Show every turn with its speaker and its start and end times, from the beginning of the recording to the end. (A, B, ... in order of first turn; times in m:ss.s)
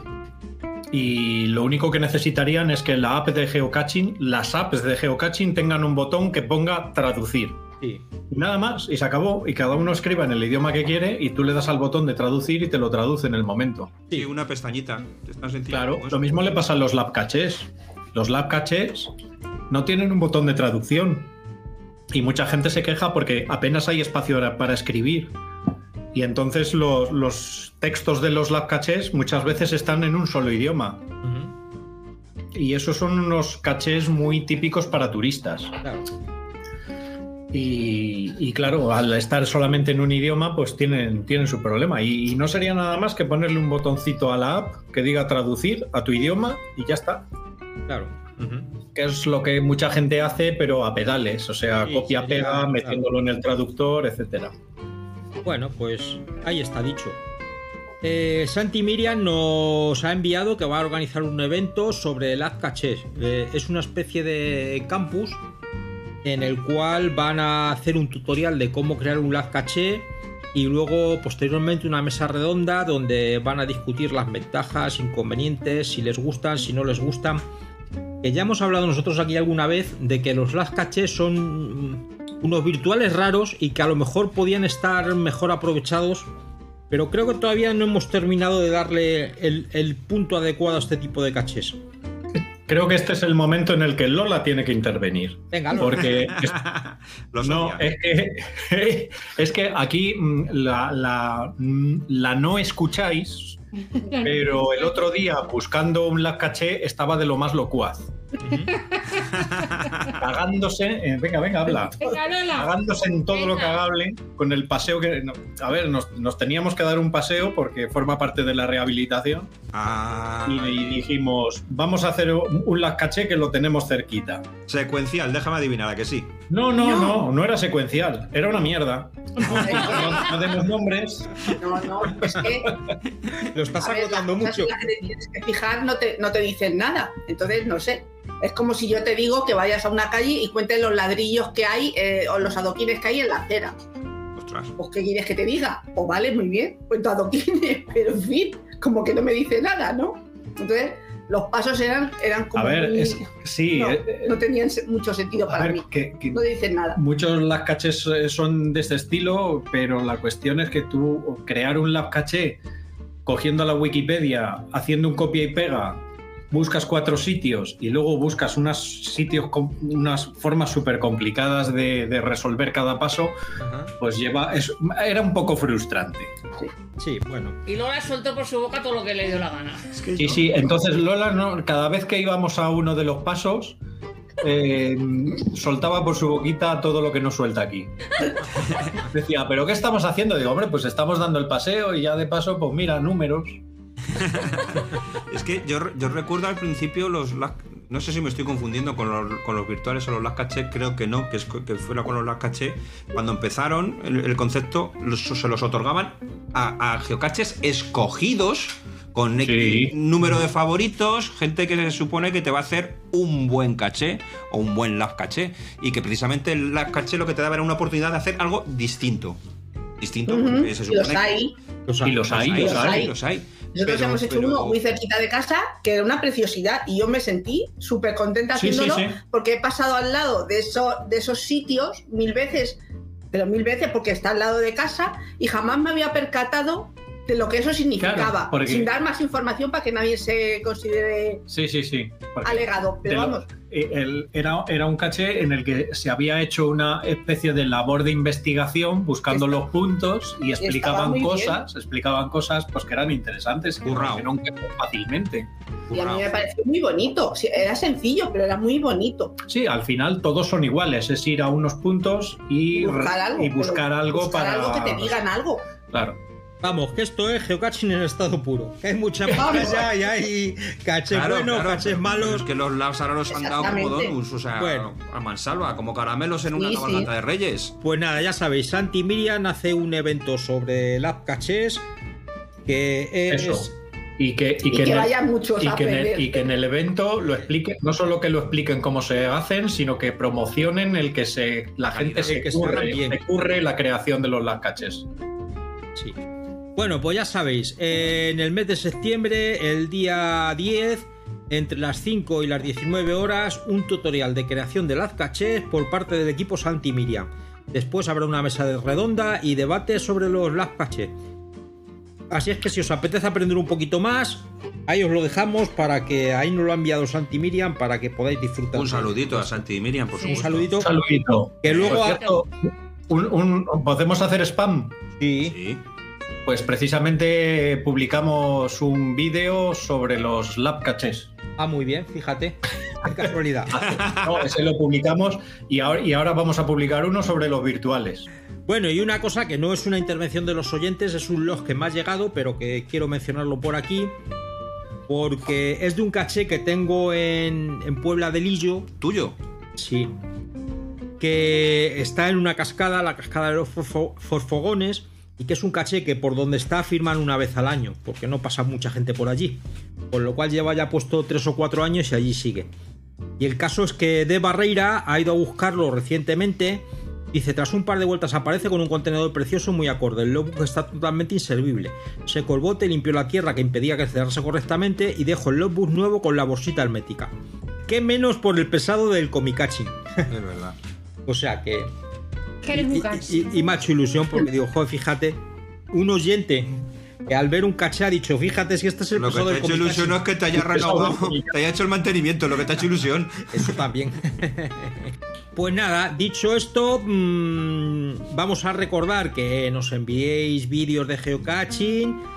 0:00.9-0:07.6 A
0:08.3-0:13.9 A
0:14.1-0:16.6 B
0:15.7-0:19.1 A
0:19.7-0:21.3 A
0:22.1-0:25.3 A
0:26.1-0:31.0 A
0:31.2-0:31.5 C
0:32.5-0:35.7 A
0:37.5-0:47.2 A
0:47.9-0:48.7 C
0:48.9-0:54.5 A
0:51.8-0:53.0 C
0:55.4-0:57.2 C
0:58.0-1:05.4 C
1:06.2-1:17.4 C
1:18.2-1:26.3 C
1:26.9-1:31.8 C
1:32.7-1:36.6 A
1:35.5-1:36.2 C
1:36.3-1:37.8 B
1:37.4-1:43.6 A
1:43.9-1:45.1 D
1:44.2-1:48.1 A
1:48.4-1:48.7 C
1:48.6-1:50.1 D
1:49.4-1:50.1 B
1:50.2-1:59.5 A
1:51.8-1:52.7 D
1:59.7-2:01.0 B
2:00.4-2:04.4 A
2:04.7-2:06.3 B
2:06.5-2:12.7 A
2:06.7-2:07.2 E
2:09.4-2:10.4 E
2:11.5-2:12.7 E
2:13.4-2:14.7 C
2:13.8-2:23.8 E
2:24.4-2:24.7 B
2:24.8-2:37.0 E
2:32.5-2:34.4 A
2:35.5-2:42.6 A
2:43.2-2:53.4 A
2:53.6-2:53.9 C
2:54.0-2:56.3 A
2:57.0-2:57.6 C
2:57.7-2:59.9 F
2:59.9-3:00.4 B
3:00.2-3:03.8 A
3:04.4-3:08.1 A
3:09.0-3:13.6 A
3:14.1-3:39.4 B
3:29.4-3:29.9 A
3:40.0-3:41.4 B
3:40.3-3:41.5 E
3:41.9-3:42.8 C
3:42.0-3:43.1 A
3:42.3-3:44.8 B
3:42.6-3:43.2 E
3:43.7-3:52.8 E
3:48.5-3:49.2 A
3:53.3-4:01.4 E
3:58.0-3:58.9 A
4:01.5-4:15.5 A
4:02.4-4:03.4 E
4:09.3-4:09.6 E
4:10.6-4:11.6 E
4:13.8-4:14.2 B
4:15.9-4:19.4 E
4:15.9-4:16.2 B
4:19.4-4:25.2 A
4:22.7-4:25.6 E
4:25.9-4:26.2 A
4:26.6-4:32.5 C
4:29.3-4:29.8 E
4:29.4-4:29.8 A
4:31.1-4:37.7 B
4:33.3-4:34.2 E
4:34.6-4:34.9 C
4:36.5-4:37.1 E
4:37.8-4:41.8 C
4:42.6-4:43.7 C
4:43.3-4:55.0 A
4:44.6-4:46.5 E
4:47.2-4:47.5 C
4:51.9-4:52.8 B
4:52.2-4:53.3 C
4:56.8-5:11.1 C
5:12.3-5:19.6 C
5:18.7-5:20.8 B
5:20.2-5:20.9 C
5:20.8-5:22.5 A
5:21.6-5:22.2 C
5:21.7-5:22.0 B
5:23.1-5:24.9 A
5:25.2-5:25.5 C
5:25.4-5:25.8 B
5:26.4-5:31.3 A
5:31.6-5:33.8 C
5:33.7-5:38.3 A
5:33.8-5:34.4 B
5:38.7-5:44.1 C
5:45.1-5:48.9 C
5:49.0-5:49.4 B
5:49.8-5:50.1 C
5:51.2-5:59.6 C
6:00.1-6:02.7 C
6:03.4-6:17.3 C
6:17.8-6:20.0 C
6:20.3-6:20.8 B
6:21.3-6:21.9 C
6:22.6-6:23.6 D
6:22.7-6:25.4 C
6:25.9-6:26.7 C
6:27.3-6:30.2 C
6:29.1-6:33.7 B
6:30.6-6:31.5 A
6:33.5-6:42.2 C